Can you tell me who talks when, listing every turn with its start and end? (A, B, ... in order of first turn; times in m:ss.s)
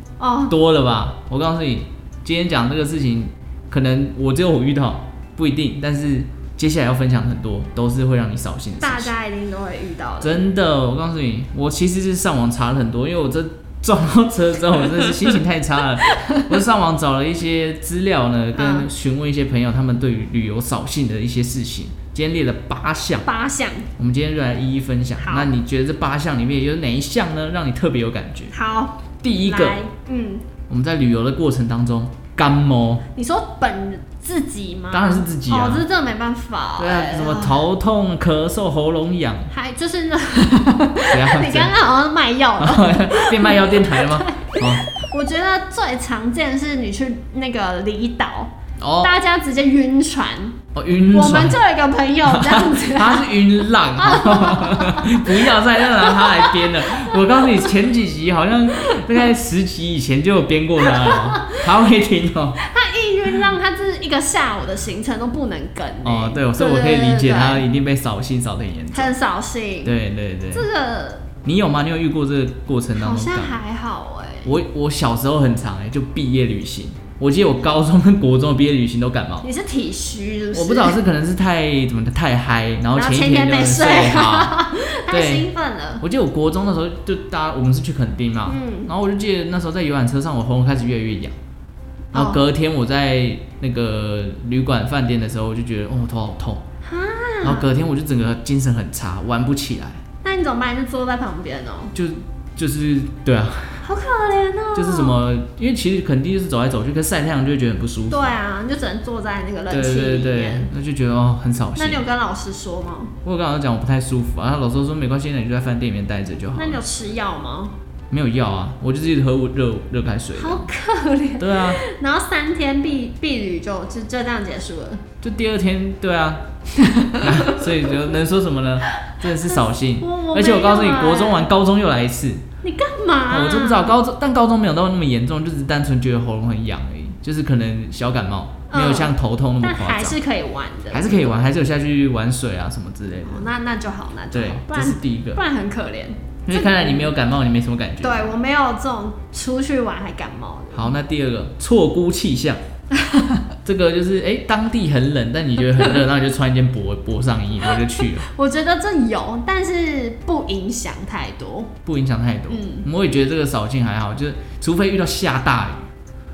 0:00.2-0:00.5 A
0:00.5-0:09.1 B
0:08.8-0:10.5 A
0:10.2-0:23.3 B
0:16.1-0:16.5 A
0:18.5-0:18.9 A
0:23.2-0:23.9 A
0:24.0-0:28.5 B
0:25.2-0:25.5 A
0:28.5-0:30.5 A
0:29.2-0:29.8 B
0:30.7-0:33.0 B
0:33.1-0:37.6 A
0:34.9-0:35.8 B
0:36.8-0:39.5 B
0:39.5-0:50.6 A
0:41.1-0:41.7 B
0:42.6-0:44.9 B
0:48.8-0:49.1 B
0:50.7-0:51.6 B
0:51.1-0:57.7 A
0:52.2-1:02.6 B
0:58.8-0:59.2 A
1:00.8-1:01.7 A
1:02.6-1:07.6 A
1:06.0-1:09.1 B
1:08.9-1:10.0 A
1:09.8-1:10.6 B
1:10.5-1:11.3 A
1:11.4-1:13.6 B
1:13.0-1:14.5 A
1:14.4-1:19.5 B
1:19.4-1:21.0 A
1:20.5-1:25.5 B
1:22.9-1:26.0 A
1:26.0-1:31.3 B
1:28.5-1:28.9 A
1:32.1-1:32.4 A
1:32.1-1:36.6 B
1:36.8-1:37.7 A
1:37.4-1:40.0 B
1:40.2-1:41.9 A
1:41.9-1:43.8 B
1:43.8-1:45.2 A
1:44.7-1:48.3 B
1:48.1-1:50.7 A
1:49.7-1:52.1 B
1:51.8-1:53.1 A
1:53.2-1:56.8 B
1:56.5-1:57.7 A
1:58.1-2:00.7 B
2:00.4-2:05.0 A
2:01.4-2:01.8 B
2:05.2-2:06.5 B
2:06.8-2:07.9 A
2:07.2-2:12.4 B
2:10.0-2:11.5 A
2:12.6-2:14.0 A
2:13.3-2:20.2 B
2:18.7-2:21.5 A
2:20.9-2:23.5 B
2:23.2-2:27.1 A
2:24.3-2:25.4 B
2:26.4-2:28.3 B
2:28.0-2:30.9 A
2:30.7-2:32.6 B
2:32.9-2:33.4 A
2:33.6-2:38.3 B
2:37.6-2:41.7 A
2:41.8-2:45.9 B
2:42.5-2:42.8 A